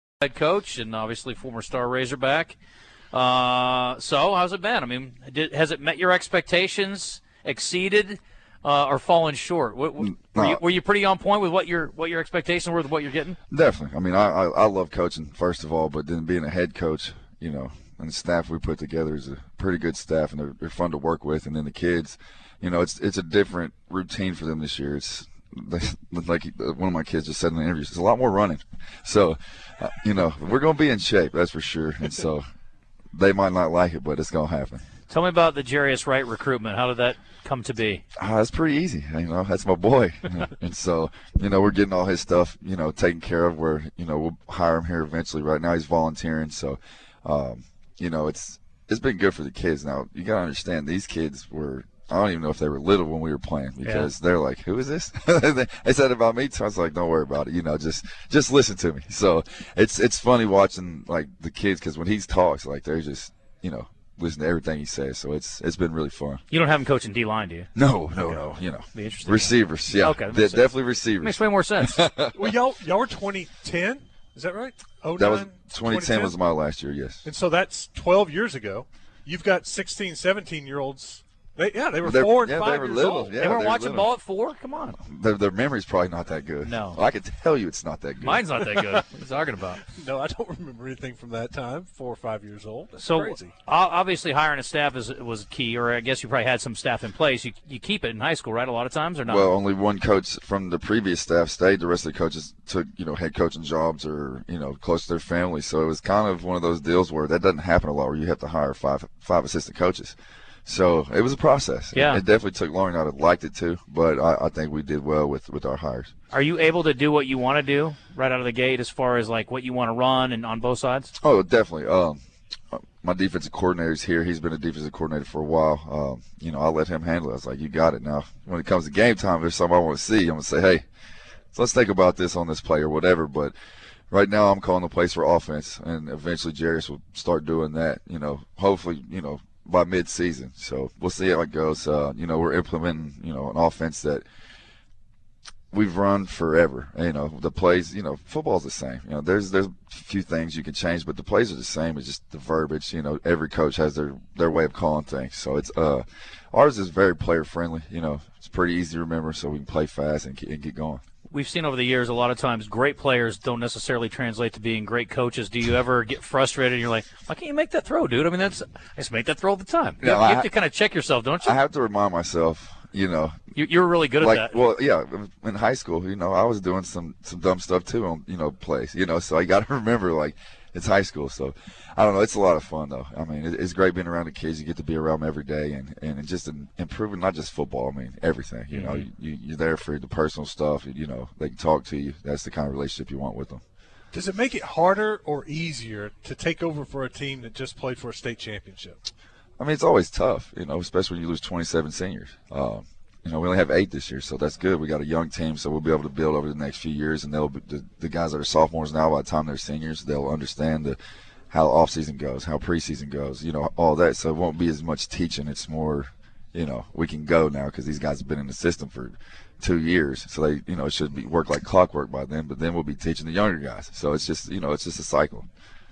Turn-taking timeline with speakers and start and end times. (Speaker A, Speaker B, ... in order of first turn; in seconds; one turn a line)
Speaker A: 0.2-2.6
Speaker A: 3.1-13.4
Speaker B: 10.0-10.6
Speaker B: 13.5-32.5
Speaker B: 33.1-34.8
Speaker A: 35.1-38.0
Speaker B: 38.2-66.4
Speaker A: 53.8-54.1
Speaker A: 66.5-67.7
Speaker B: 67.8-72.5
Speaker A: 68.9-72.0
Speaker C: 72.3-76.3
Speaker B: 75.2-77.2
Speaker C: 77.2-83.4
Speaker B: 82.0-84.1
Speaker A: 83.4-85.0
Speaker B: 85.0-88.6
Speaker A: 86.6-87.0
Speaker A: 88.2-89.8
Speaker C: 89.9-93.5
Speaker A: 93.0-99.5
Speaker B: 99.3-116.1
Speaker A: 111.9-112.2
Speaker A: 116.3-121.1
Speaker B: 121.2-122.2
Speaker B: 122.7-130.8
Speaker B: 131.5-133.6
Speaker B: 134.1-144.2
Speaker B: 145.7-161.0
Speaker A: 161.3-171.6
Speaker B: 170.0-170.5
Speaker B: 171.4-173.4
Speaker A: 173.6-174.6
Speaker B: 174.2-193.6
Speaker A: 188.7-189.1
Speaker C: 194.1-199.0
Speaker B: 199.6-211.0
Speaker B: 211.5-225.5